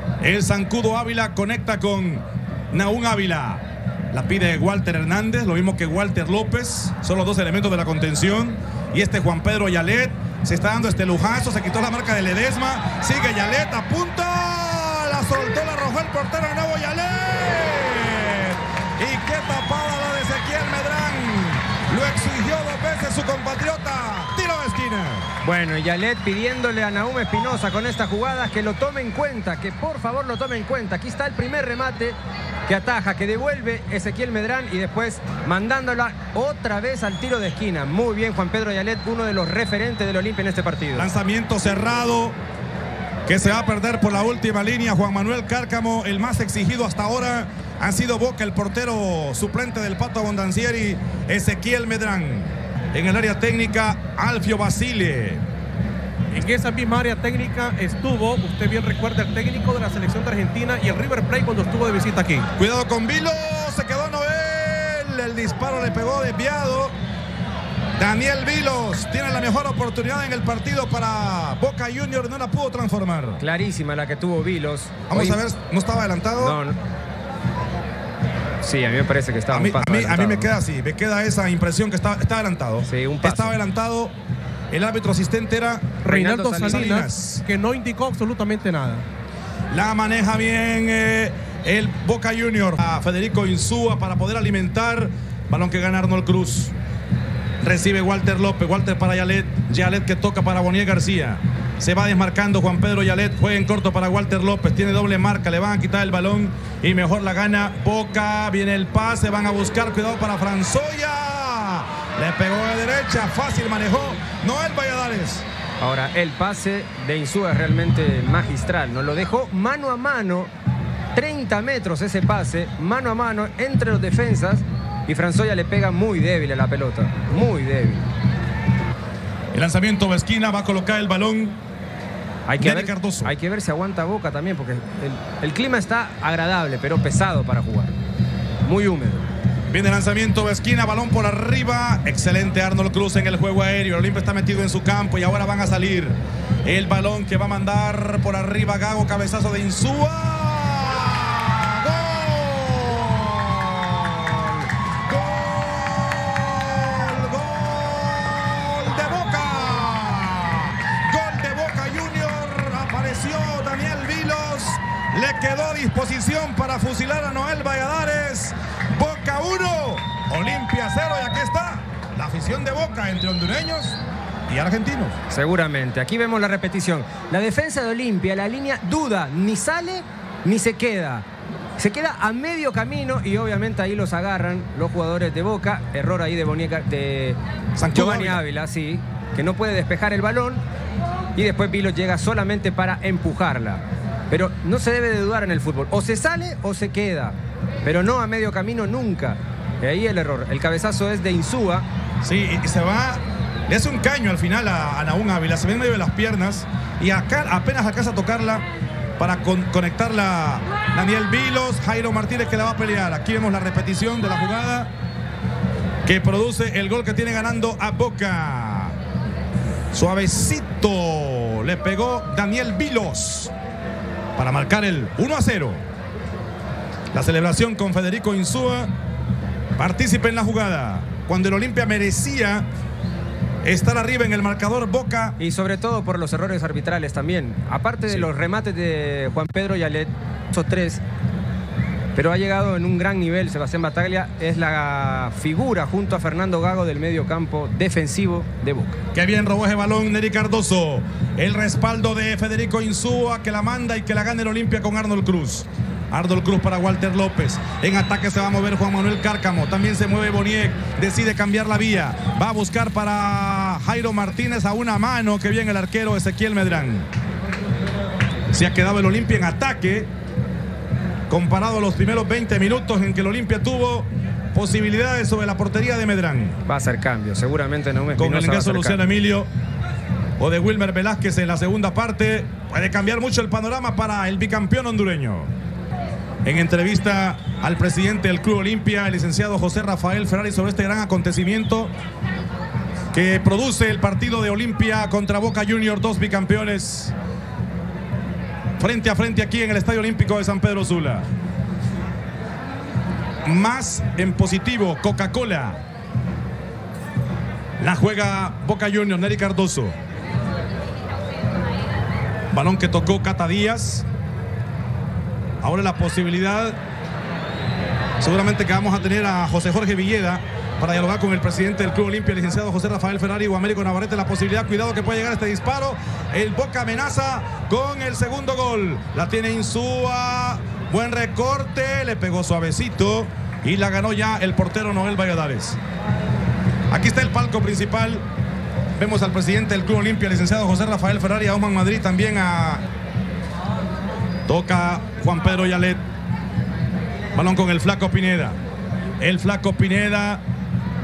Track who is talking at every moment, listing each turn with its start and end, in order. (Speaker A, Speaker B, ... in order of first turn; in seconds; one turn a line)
Speaker A: 0.2-25.3
Speaker B: 25.4-32.2
Speaker B: 32.7-41.1
Speaker A: 41.0-42.4
Speaker A: 43.3-55.4
Speaker C: 56.3-62.5
Speaker A: 62.6-67.0
Speaker A: 68.0-73.4
Speaker B: 73.4-75.4
Speaker A: 75.1-76.6
Speaker B: 76.4-76.8
Speaker B: 78.6-80.5
Speaker A: 79.5-84.2
Speaker B: 82.8-83.5
Speaker A: 84.7-86.0
Speaker B: 86.0-87.0
Speaker C: 86.0-89.0
Speaker A: 86.6-87.4
Speaker A: 89.7-96.7
Speaker A: 97.6-115.5
Speaker B: 115.8-120.5
Speaker B: 121.2-128.1
Speaker A: 129.5-131.6
Speaker B: 132.5-137.9
Speaker A: 132.6-133.3
Speaker B: 138.7-139.3
Speaker A: 139.7-175.2
Speaker B: 175.3-181.2
Speaker B: 181.8-187.4
Speaker A: 187.8-188.4
Speaker B: 187.9-190.6
Speaker B: 191.4-201.9
Speaker A: 202.2-208.7
Speaker A: 209.2-214.9
Speaker A: 216.1-219.0
Speaker A: 219.9-223.5
Speaker A: 224.4-225.8
Speaker A: 227.1-228.9
Speaker A: 229.8-232.7
Speaker A: 233.6-235.4
Speaker B: 235.4-241.0
Speaker B: 242.2-249.0
Speaker A: 249.1-267.1
Speaker A: 268.5-270.1
Speaker A: 271.3-276.6
Speaker B: 276.7-279.0
Speaker A: 278.2-279.5
Speaker A: 280.4-285.5
Speaker A: 286.4-291.9
Speaker A: 293.1-297.1
Speaker A: 298.8-301.2
Speaker A: 303.5-305.8
Speaker A: 307.8-309.9
Speaker A: 312.5-314.1
Speaker A: 315.6-316.8
Speaker A: 318.2-335.8
Speaker A: 336.9-338.2
Speaker A: 339.0-342.8
Speaker A: 344.5-346.0
Speaker A: 347.3-348.6
Speaker A: 349.2-350.4